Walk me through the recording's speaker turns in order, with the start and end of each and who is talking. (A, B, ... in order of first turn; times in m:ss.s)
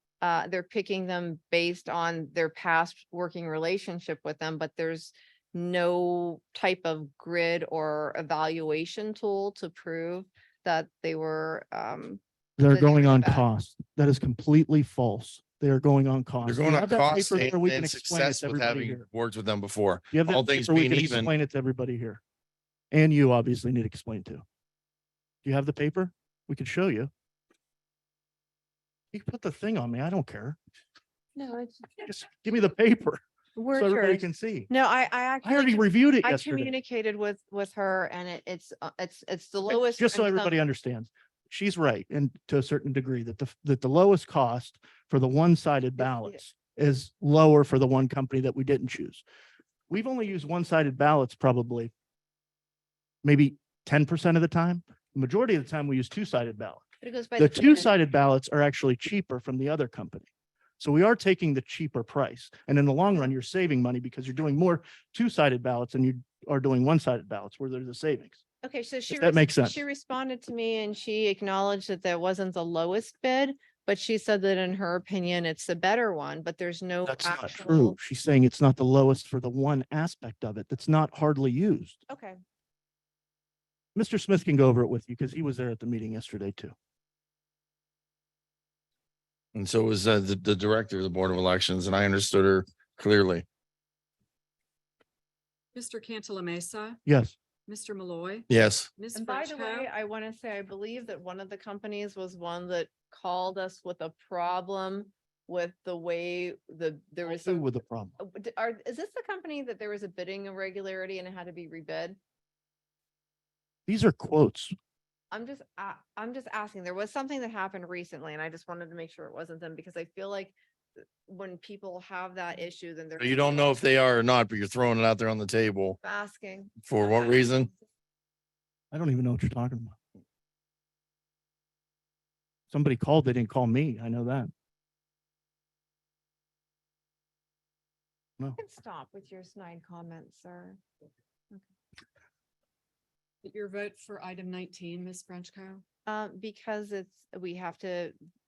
0:00.2-0:13.4 A
0:12.6-0:19.0 B
0:16.4-0:21.3 C
0:20.1-0:22.2 B
0:22.9-0:24.4 B
0:25.4-0:27.1 B
0:29.1-0:30.6 B
0:31.4-0:32.0 A
0:32.0-0:33.2 B
0:33.6-0:40.6 A
0:33.7-0:34.7 B
0:35.4-0:36.7 B
0:39.7-0:49.2 B
0:49.9-0:51.9 B
0:53.2-0:56.8 B
0:57.0-0:57.9 A
0:57.4-1:00.3 B
1:00.8-1:08.4 B
1:08.6-1:18.0 A
1:09.1-1:09.7 B
1:17.0-1:22.0 B
1:22.1-1:22.4 A
1:23.9-1:26.7 B
1:29.5-1:33.4 C
1:35.7-1:37.0 D
1:37.0-1:37.3 B
1:37.7-1:39.9 D
1:38.5-1:38.9 C
1:39.1-1:52.2 A
1:47.3-1:48.2 B
1:53.9-1:54.7 B
1:55.3-2:00.5 A
2:01.3-2:03.8 A
2:03.2-2:06.0 C
2:06.0-2:06.8 A
2:06.8-2:07.7 C
2:08.9-2:10.0 B
2:12.7-2:14.5 B
2:18.6-2:20.8 A
2:23.4-2:25.8 D
2:26.0-2:28.1 A